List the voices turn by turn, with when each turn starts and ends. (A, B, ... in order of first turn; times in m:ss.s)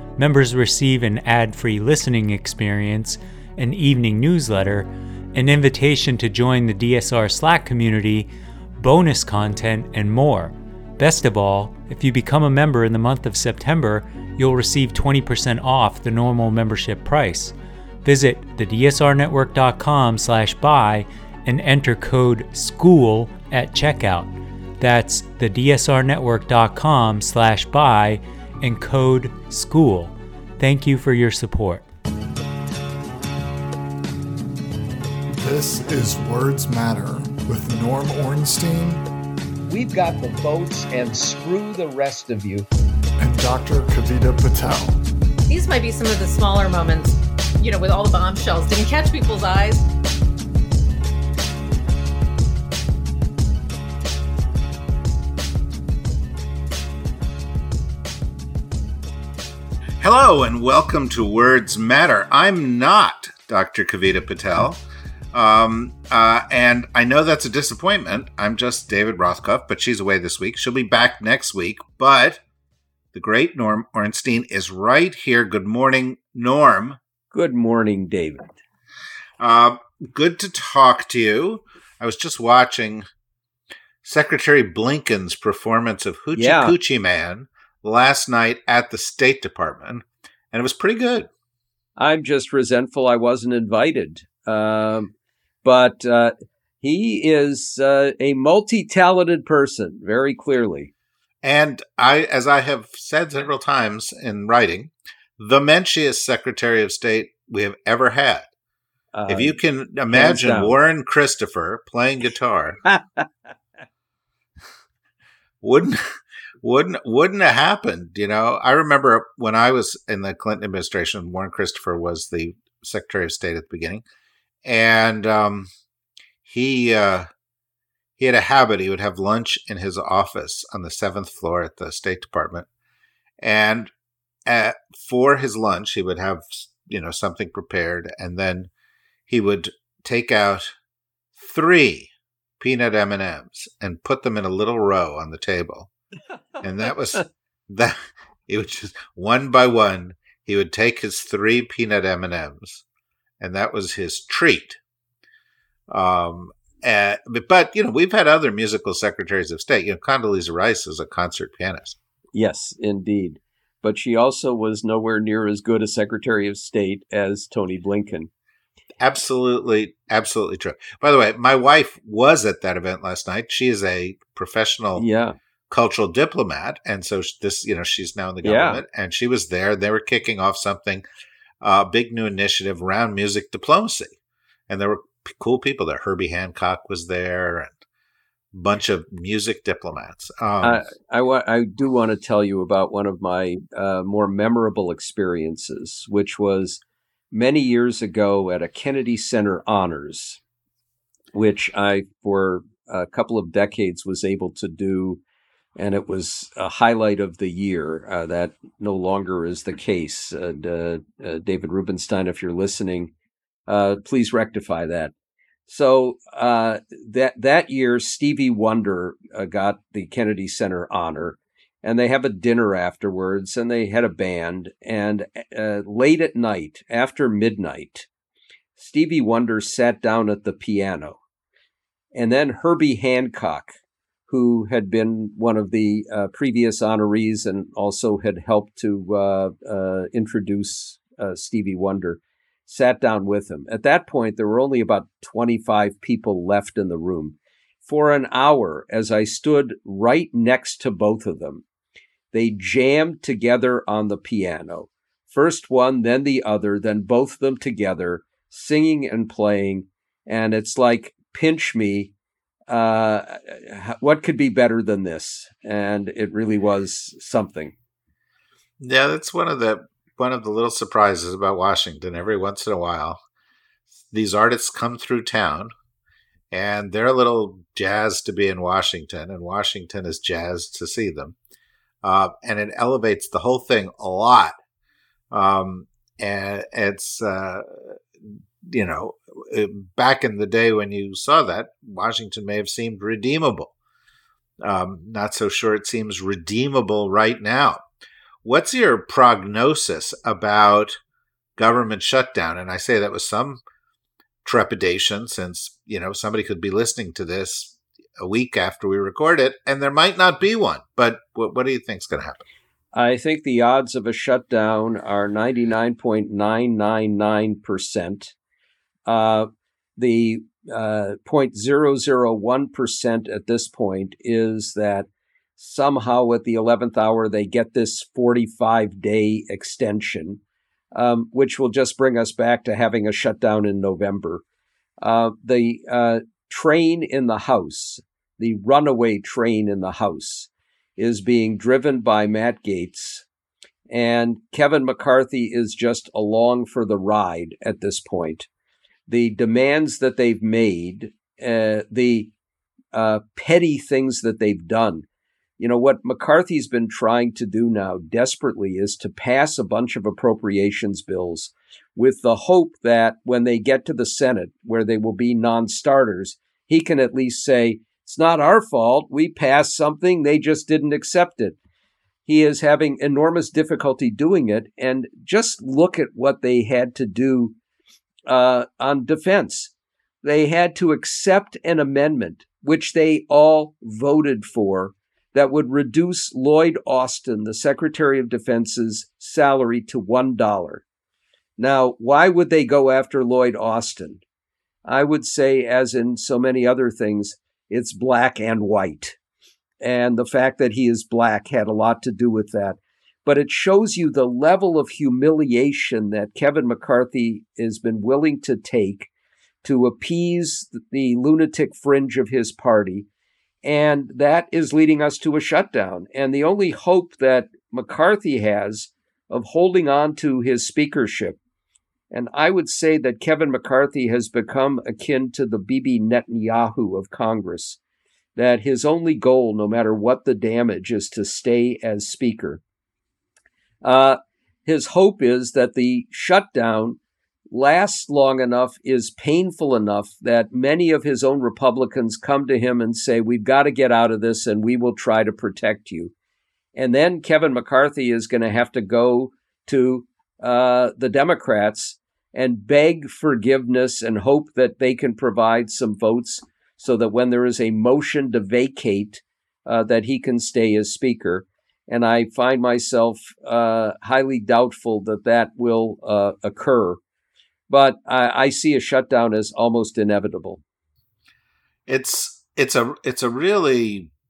0:00.2-0:08.3 A
0:08.8-0:31.8 A
0:35.3-0:39.0 B
0:39.7-0:42.7 C
0:43.2-0:45.0 B
0:45.5-0:49.8 D
1:00.0-1:04.8 E
1:05.3-1:12.4 E
1:13.1-1:17.0 E
1:17.3-1:18.5 C
1:19.4-1:23.0 E
1:24.0-1:31.3 E
1:26.3-1:26.7 C
1:32.0-1:35.1 C
1:35.6-1:40.9 C
1:41.4-1:48.5 E
1:49.1-1:49.6 C
1:49.3-1:52.8 E
1:50.1-1:50.8 C
1:52.9-1:53.2 C
1:55.6-2:04.0 E
2:04.6-2:05.7 E
2:06.4-2:07.3 E
2:08.2-2:12.6 E
2:13.4-2:13.9 E
2:14.4-2:18.7 E
2:19.3-2:20.7 E
2:21.3-2:25.9 E
2:26.6-2:28.0 E
2:28.5-2:32.8 E
2:33.4-2:34.8 E
2:35.9-2:42.0 E
2:42.3-2:48.3 C
2:49.0-2:55.0 E
2:55.0-2:55.4 C
2:55.7-3:01.0 E
2:58.4-2:58.8 C
3:01.6-3:04.1 E
3:04.7-3:07.8 E
3:08.5-3:10.8 E
3:10.6-3:16.8 C
3:17.3-3:20.4 C
3:21.3-3:25.2 C
3:25.8-3:33.1 C
3:33.7-3:35.1 C
3:35.7-3:48.1 C
3:48.8-3:51.2 C
3:52.1-3:53.8 C
3:54.3-4:11.6 C
4:12.3-4:22.1 C
4:22.7-4:27.7 C
4:28.8-4:33.2 E
4:34.1-4:35.7 E
4:36.5-4:41.4 E
4:42.0-4:44.6 E
4:45.3-4:53.7 E
4:54.6-4:57.8 E
4:58.4-5:01.0 E
5:01.6-5:03.6 E
5:04.4-5:12.4 E
5:12.9-5:18.3 C
5:19.0-5:30.4 C
5:30.9-5:34.4 C
5:35.0-5:43.2 C
5:43.9-5:48.5 C
5:49.1-5:52.3 C
5:52.9-5:55.0 C
5:55.6-6:11.6 C
6:12.2-6:17.5 C
6:18.3-6:19.7 C
6:20.2-6:30.8 C
6:31.6-6:34.2 C
6:34.8-6:39.2 C
6:39.8-6:49.1 C
6:49.6-6:53.1 C
6:53.6-7:01.4 C
7:02.1-7:07.8 C
7:08.4-7:12.6 C
7:13.8-7:17.0 C
7:17.5-7:26.1 C
7:26.7-7:47.0 C
7:47.7-7:50.6 C
7:51.9-7:54.1 E